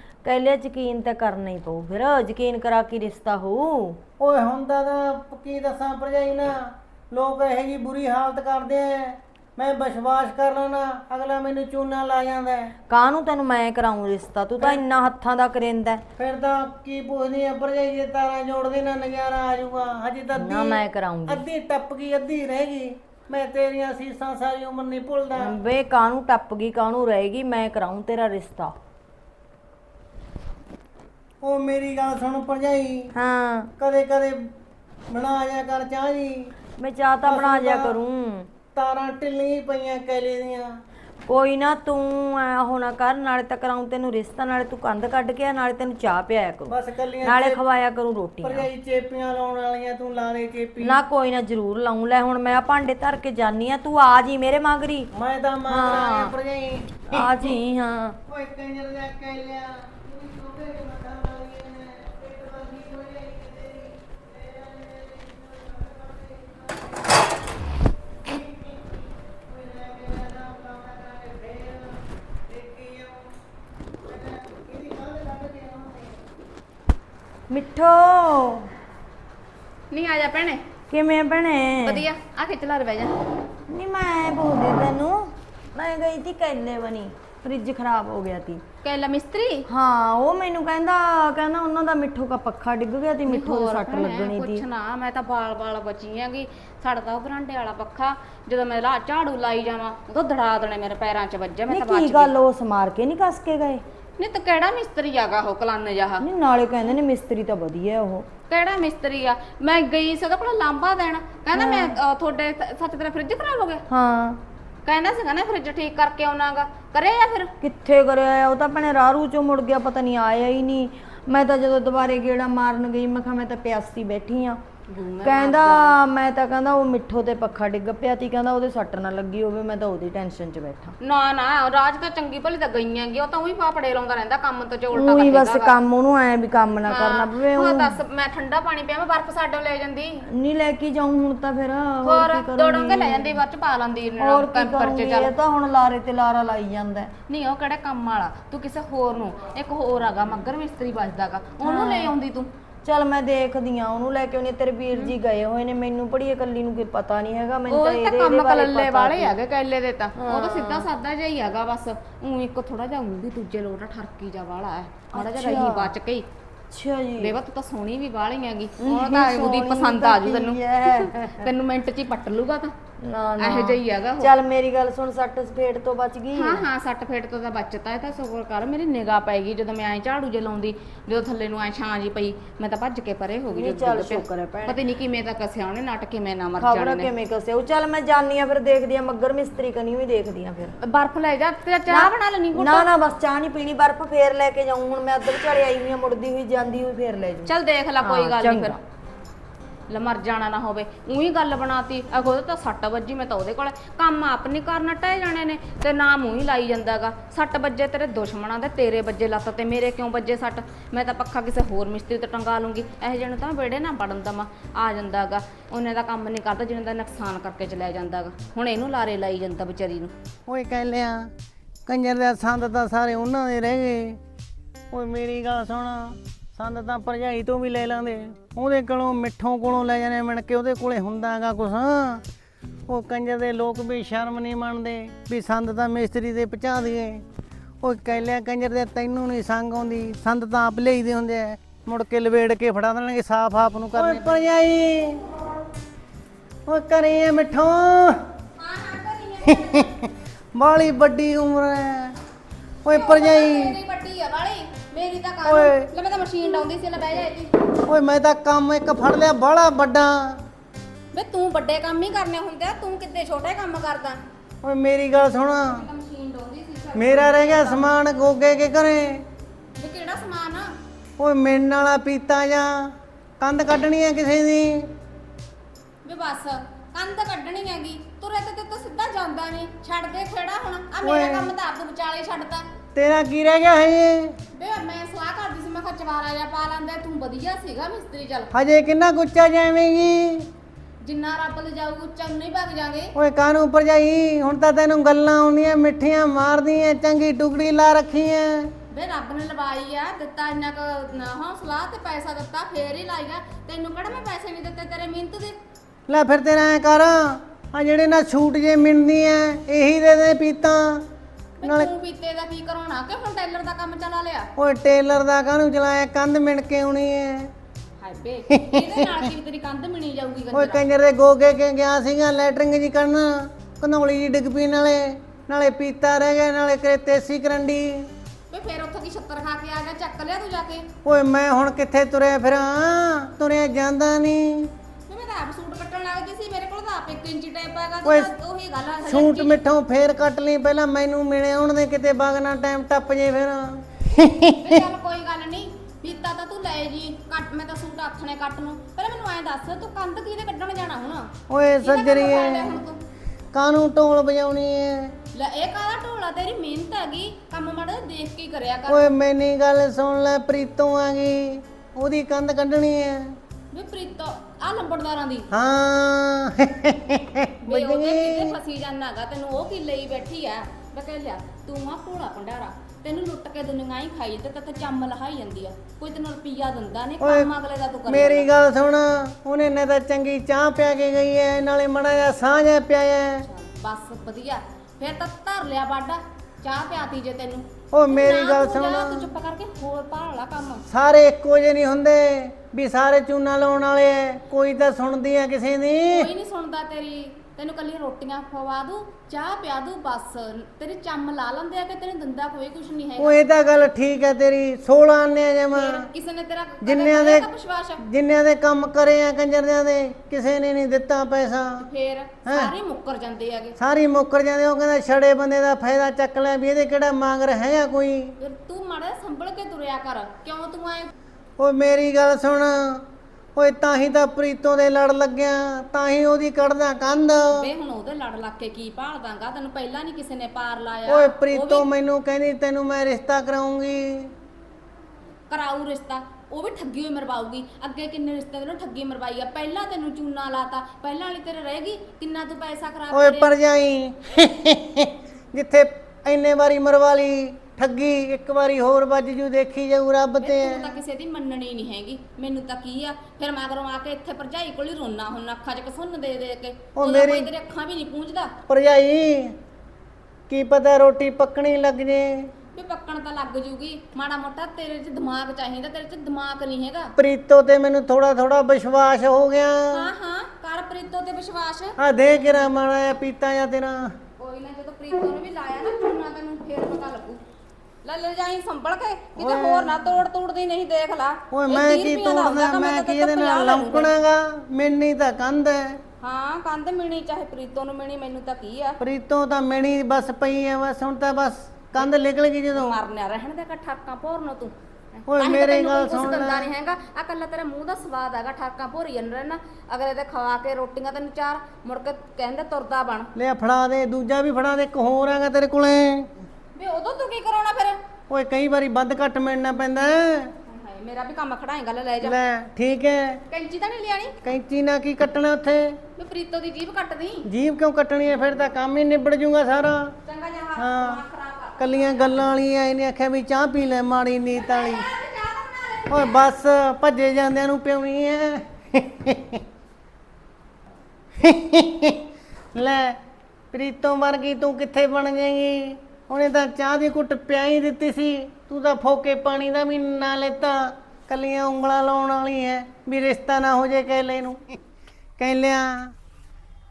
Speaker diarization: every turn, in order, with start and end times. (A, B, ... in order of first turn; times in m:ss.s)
0:00.2-0:04.0 A
0:04.2-0:12.8 B
0:12.9-0:16.0 A
0:16.2-0:25.5 B
0:20.4-0:21.4 A
0:25.4-0:28.8 A
0:31.4-0:33.1 B
0:33.1-0:33.7 A
0:33.8-0:34.5 B
0:35.1-0:36.5 B
0:36.8-0:38.5 A
0:37.2-0:38.0 B
0:38.7-0:40.8 B
0:41.3-0:48.7 A
0:46.7-0:47.6 B
0:48.4-0:51.0 B
0:50.8-0:55.1 A
0:55.1-0:57.5 B
0:55.7-0:56.4 A
0:57.1-0:58.2 A
0:58.3-1:07.1 B
1:08.3-1:13.3 B
1:14.1-1:16.2 B
1:17.5-1:18.7 A
1:19.9-1:20.6 C
1:20.9-1:22.1 A
1:21.8-1:23.2 C
1:23.7-1:28.6 A
1:28.8-1:29.7 C
1:29.7-1:34.6 A
1:33.3-1:42.3 C
1:41.7-1:43.8 A
1:44.2-1:46.3 C
1:46.2-1:48.3 A
1:48.5-1:53.8 C
1:51.5-1:52.0 A
1:53.9-1:54.4 A
1:54.9-1:57.5 C
1:57.6-2:04.6 A
2:04.9-2:06.0 C
2:05.2-2:11.0 A
2:11.0-2:15.7 C
2:14.9-2:18.0 A
2:16.9-2:20.3 C
2:20.3-2:23.4 A
2:22.0-2:25.3 C
2:24.2-2:27.1 A
2:27.3-2:32.5 C
2:31.6-2:32.1 A
2:32.8-2:39.4 A
2:37.7-2:46.3 C
2:40.2-2:40.9 A
2:45.1-2:45.9 A
2:46.7-2:47.4 A
2:47.2-2:52.7 C
2:48.8-2:51.5 A
2:53.0-2:56.7 A
2:53.4-2:54.3 C
2:56.3-3:07.1 C
3:03.5-3:04.8 A
3:06.6-3:10.8 A
3:10.8-3:12.9 C
3:11.9-3:18.8 A
3:17.5-3:18.8 C
3:19.9-3:40.1 C
3:40.5-3:41.3 B
3:41.9-3:44.2 B
3:44.9-3:52.2 B
3:52.9-3:57.2 B
3:57.8-4:05.2 B
4:04.0-4:04.4 C
4:06.7-4:08.2 B
4:08.6-4:09.9 C
4:09.5-4:12.2 B
4:12.8-4:13.8 B
4:12.9-4:17.5 C
4:15.4-4:15.9 B
4:17.9-4:20.4 B
4:21.1-4:24.2 C
4:24.6-4:25.8 B
4:25.6-4:27.9 C
4:27.0-4:29.2 B
4:29.8-4:30.7 C
4:31.2-4:34.9 B
4:36.0-4:42.7 C
4:41.0-4:41.5 B
4:43.0-4:44.4 B
4:44.5-4:48.5 C
4:48.5-4:50.5 B
4:51.0-4:53.1 C
4:53.2-4:58.7 B
4:58.9-5:05.6 C
5:06.1-5:11.0 B
5:11.6-5:14.5 C
5:11.6-5:11.9 B
5:14.6-5:17.5 B
5:18.0-5:20.8 C
5:18.5-5:19.2 B
5:20.5-5:28.1 B
5:28.5-5:30.9 C
5:31.0-5:34.7 B
5:35.1-5:39.6 C
5:39.1-5:44.8 B
5:44.6-5:53.0 C
5:51.5-5:52.8 B
5:53.5-5:55.1 B
5:55.3-5:59.1 C
5:58.9-6:03.4 B
6:03.7-6:05.5 C
6:05.5-6:08.6 B
6:07.7-6:18.5 C
6:17.2-6:17.5 B
6:18.1-6:23.5 B
6:23.5-6:30.8 C
6:27.9-6:29.3 B
6:30.9-6:36.3 B
6:36.1-6:43.4 C
6:43.2-6:46.1 B
6:45.7-6:48.0 C
6:46.8-6:47.5 B
6:48.0-6:51.9 B
6:51.8-6:53.8 C
6:52.4-6:52.7 B
6:53.8-6:58.3 B
6:58.4-7:01.1 C
7:01.6-7:07.7 B
7:07.5-7:11.9 C
7:11.1-7:14.3 B
7:15.5-7:23.5 C
7:23.1-7:31.0 B
7:30.4-7:38.5 C
7:37.0-7:37.5 B
7:38.7-7:39.6 B
7:40.5-7:42.5 B
7:42.8-7:47.1 C
7:47.2-7:50.1 B
7:49.9-7:52.0 C
7:52.0-7:54.1 B
7:54.4-7:57.4 C
7:58.0-8:04.2 C
7:59.4-8:00.0 B
8:01.5-8:06.0 B
8:06.2-8:09.0 C
8:09.0-8:13.0 B
8:12.7-8:14.7 C
8:15.3-8:16.7 B
8:15.3-8:23.3 C
8:23.4-8:26.3 B
8:26.8-8:28.0 C
8:28.3-8:30.5 B
8:30.7-8:32.4 C
8:32.2-8:33.4 B
8:33.5-8:34.4 C
8:34.4-8:36.0 B
8:36.2-8:37.5 C
8:37.4-8:40.2 B
8:40.2-8:42.4 C
8:40.8-8:41.2 B
8:41.8-8:45.0 B
8:44.5-8:46.5 C
8:46.1-8:49.6 B
8:51.4-8:53.2 B
8:53.7-9:04.8 B
9:05.4-9:06.1 B